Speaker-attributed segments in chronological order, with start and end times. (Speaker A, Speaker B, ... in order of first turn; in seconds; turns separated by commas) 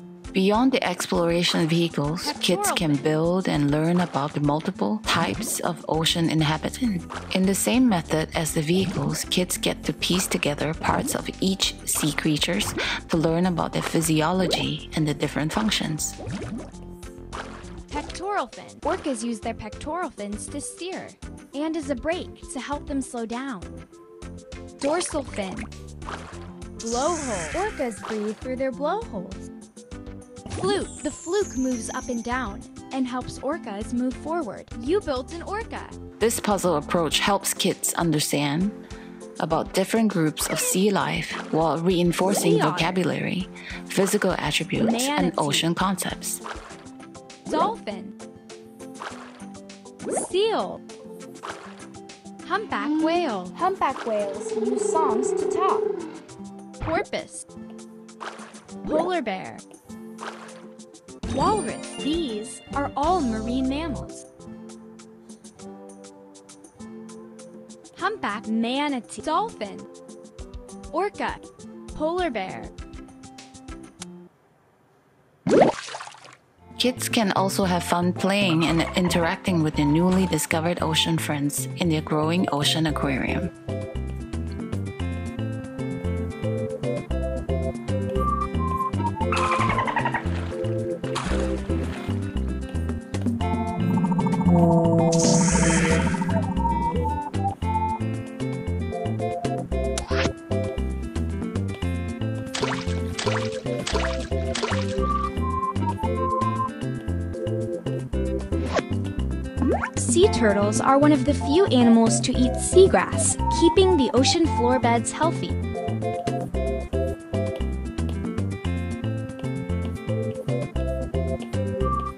Speaker A: 0.3-16.2, Speaker B: 2.2-3.1, Speaker B: 17.9-23.8, Speaker B: 24.8-25.7, Speaker B: 26.8-29.5, Speaker B: 30.5-36.0, Speaker A: 36.2-38.7, Speaker A: 39.4-46.4, Speaker B: 42.2-43.1, Speaker B: 44.8-45.7, Speaker B: 47.5-48.1, Speaker B: 50.1-50.8, Speaker B: 52.4-55.9, Speaker B: 56.8-57.5, Speaker B: 58.8-59.6, Speaker B: 61.3-64.2, Speaker B: 68.0-69.9, Speaker B: 70.9-72.7, Speaker A: 76.8-83.5, Speaker B: 110.0-115.6